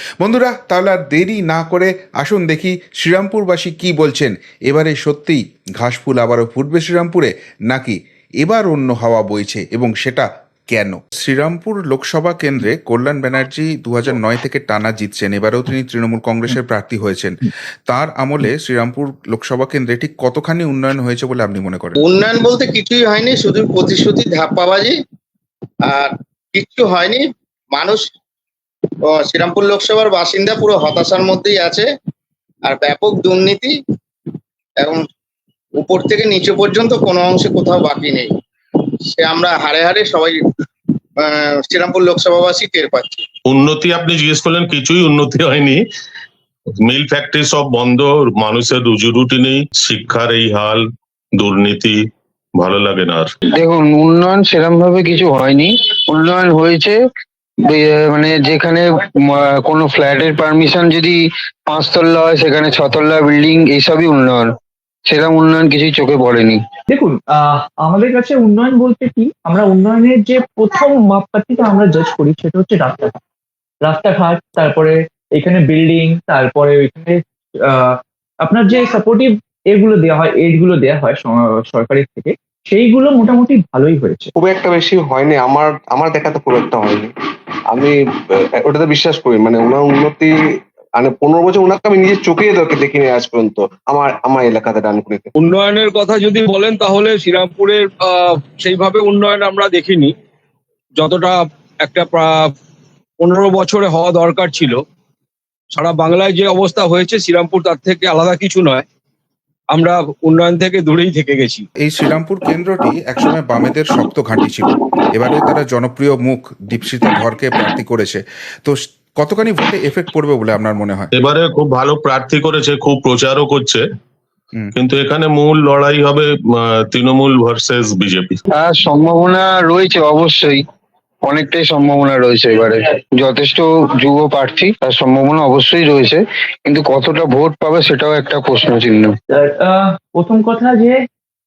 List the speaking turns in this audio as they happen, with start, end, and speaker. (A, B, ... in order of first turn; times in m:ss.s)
0:00.2-0:22.0 A
0:22.0-0:25.0 B
0:25.8-0:28.1 B
0:29.1-0:31.9 B
0:32.6-0:33.7 B
0:35.8-0:38.3 B
0:39.1-0:40.4 B
0:41.2-0:43.2 B
0:43.4-0:45.8 C
0:46.8-0:50.8 C
0:51.4-0:52.0 C
0:52.6-0:53.3 C
0:53.5-0:57.0 D
0:57.6-1:06.6 D
1:06.9-1:13.2 E
1:13.8-1:24.3 E
1:24.4-1:27.1 F
1:28.6-1:30.3 F
1:31.0-1:35.3 F
1:35.4-1:40.1 G
1:41.0-1:42.5 G
1:43.2-1:44.8 G
1:45.7-1:48.8 G
1:49.7-1:51.6 G
1:51.8-2:01.1 A
2:01.2-2:03.8 C
2:04.8-2:08.4 C
2:08.5-2:10.6 D
2:11.2-2:19.1 D
2:19.3-2:21.0 E